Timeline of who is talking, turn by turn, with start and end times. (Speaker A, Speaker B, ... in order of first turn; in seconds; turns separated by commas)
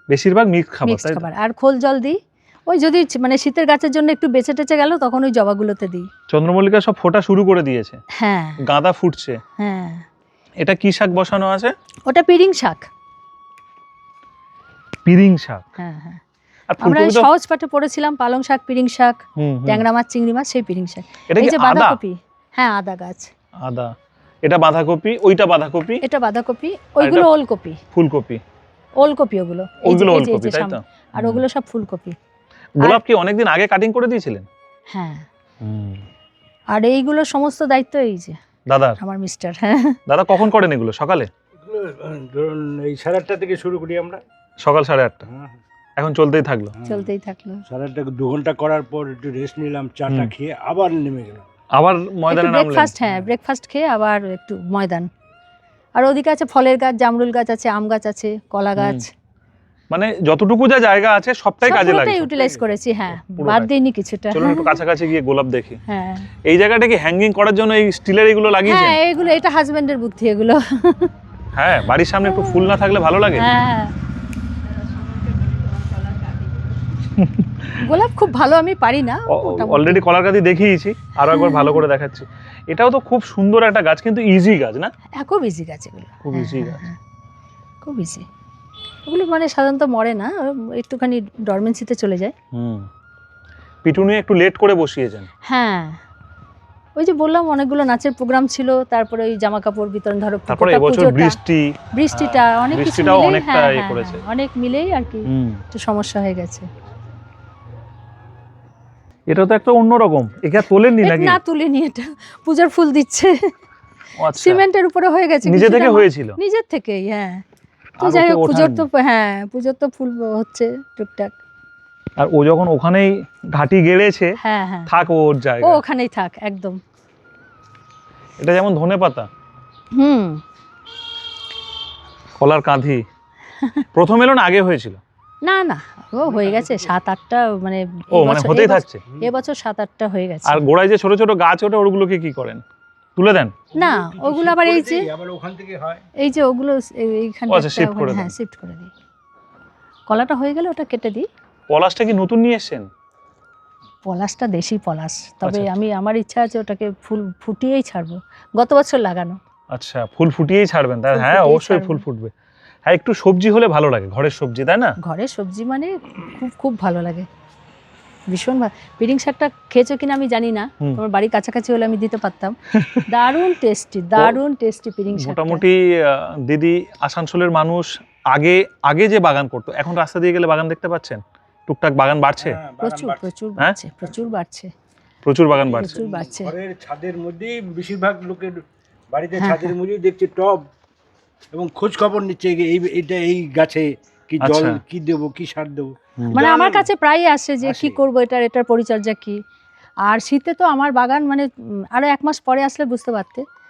Speaker A: 0.1-1.2, Speaker B: 0.8-6.1, Speaker A: 6.3-8.0, Speaker B: 8.2-8.6, Speaker A: 8.6-9.4, Speaker B: 9.6-10.0, Speaker A: 10.6-11.7, Speaker B: 12.1-12.9, Speaker A: 15.1-15.6, Speaker B: 15.8-16.2, Speaker A: 16.7-17.3, Speaker B: 16.8-23.3, Speaker A: 19.4-19.8, Speaker A: 21.3-22.0, Speaker A: 23.6-23.9, Speaker A: 24.4-26.0, Speaker B: 26.0-27.8, Speaker A: 27.0-27.3, Speaker A: 27.9-28.4, Speaker B: 29.0-32.2, Speaker A: 29.8-31.4, Speaker A: 32.8-34.5, Speaker B: 34.9-35.2, Speaker A: 35.6-36.0, Speaker B: 36.7-38.4, Speaker A: 38.7-39.0, Speaker B: 39.0-40.0, Speaker A: 40.1-41.3, Speaker C: 41.6-44.2, Speaker A: 44.6-45.2, Speaker C: 45.3-45.6, Speaker A: 46.0-46.7, Speaker C: 46.8-47.1, Speaker B: 46.8-47.6, Speaker C: 47.6-51.4, Speaker A: 50.1-50.3, Speaker A: 51.8-52.9, Speaker B: 52.3-55.1, Speaker B: 56.0-59.1, Speaker A: 58.8-59.0, Speaker A: 59.9-62.3, Speaker B: 61.6-64.8, Speaker A: 63.1-63.7, Speaker A: 64.3-65.8, Speaker B: 65.9-66.3, Speaker A: 66.5-69.0, Speaker B: 68.6-71.1, Speaker A: 71.5-73.5, Speaker B: 72.2-72.8, Speaker B: 73.3-73.9, Speaker B: 75.3-76.4, Speaker A: 77.2-77.7, Speaker B: 77.8-80.1, Speaker A: 79.3-84.9, Speaker B: 81.3-81.8, Speaker B: 85.2-87.0, Speaker A: 86.2-86.8, Speaker B: 87.8-88.2, Speaker B: 89.0-92.3, Speaker A: 92.5-92.9, Speaker A: 93.8-95.3, Speaker B: 95.5-96.0, Speaker B: 97.0-101.4, Speaker A: 100.5-104.2, Speaker B: 101.9-106.7, Speaker A: 105.3-105.6, Speaker A: 109.3-111.4, Speaker B: 111.0-113.5, Speaker A: 114.2-114.6, Speaker B: 114.3-117.4, Speaker A: 115.4-116.4, Speaker B: 118.0-121.3, Speaker A: 118.0-118.8, Speaker A: 122.2-124.3, Speaker B: 124.4-124.9, Speaker A: 124.9-125.8, Speaker B: 125.6-126.8, Speaker A: 128.4-129.3, Speaker B: 129.9-130.4, Speaker A: 132.4-133.0, Speaker A: 133.9-135.0, Speaker B: 135.4-140.6, Speaker C: 136.2-136.9, Speaker A: 138.1-139.0, Speaker A: 140.4-142.6, Speaker A: 143.2-143.5, Speaker C: 143.7-146.0, Speaker B: 143.7-145.1, Speaker B: 146.2-148.9, Speaker A: 147.5-148.3, Speaker B: 150.1-151.2, Speaker A: 151.7-152.9, Speaker B: 154.0-159.4, Speaker A: 159.7-162.3, Speaker B: 161.1-162.0, Speaker A: 162.8-164.9, Speaker B: 165.0-167.3, Speaker B: 168.3-172.6, Speaker A: 172.8-173.0, Speaker B: 173.1-175.6, Speaker A: 175.1-182.6, Speaker C: 182.4-183.3, Speaker B: 182.8-184.7, Speaker A: 185.2-186.0, Speaker C: 185.6-190.6, Speaker B: 185.8-186.5, Speaker B: 189.4-189.7, Speaker C: 191.5-196.9, Speaker A: 194.4-194.8, Speaker B: 196.3-199.4, Speaker C: 197.6-198.0, Speaker B: 200.1-203.4